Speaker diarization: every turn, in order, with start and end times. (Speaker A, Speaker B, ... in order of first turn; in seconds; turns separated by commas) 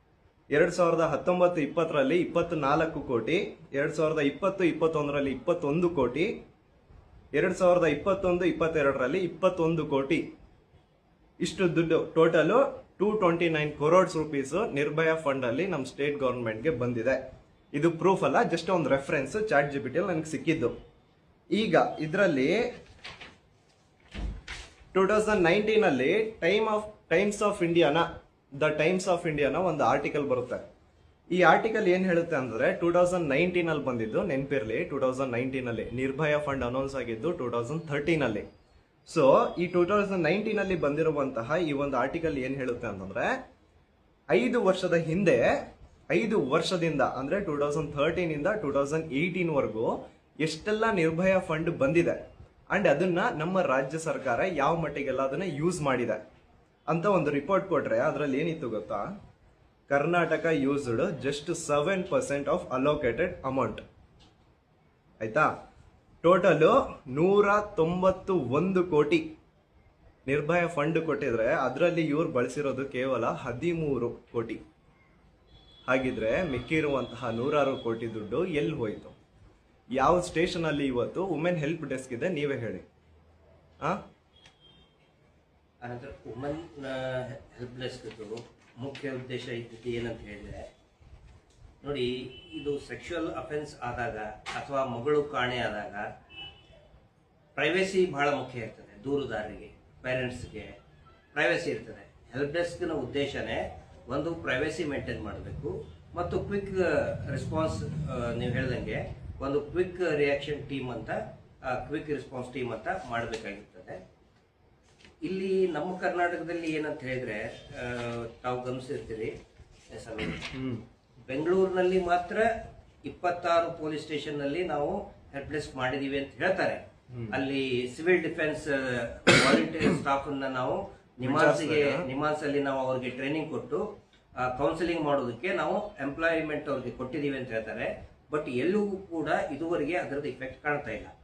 Speaker A: 0.5-6.3, Speaker A: 7.3-10.2, Speaker A: 11.4-17.2, Speaker A: 17.7-20.7, Speaker A: 21.5-22.6, Speaker A: 24.9-28.1, Speaker A: 28.6-30.6, Speaker A: 31.3-38.5, Speaker A: 39.1-43.4, Speaker A: 44.3-45.5, Speaker A: 46.1-52.2, Speaker A: 52.7-56.2, Speaker A: 56.9-59.1, Speaker A: 59.9-63.8, Speaker A: 65.2-65.5, Speaker A: 66.2-69.2, Speaker A: 70.3-74.6, Speaker A: 75.9-79.2, Speaker A: 80.0-82.8, Speaker B: 85.8-90.7, Speaker B: 91.8-96.1, Speaker B: 97.6-100.7, Speaker B: 101.3-114.0, Speaker B: 115.2-119.3, Speaker B: 119.9-120.5, Speaker A: 120.5-120.8, Speaker B: 121.3-122.5, Speaker B: 123.0-133.8, Speaker A: 127.1-127.4, Speaker A: 131.2-132.1, Speaker B: 134.4-141.1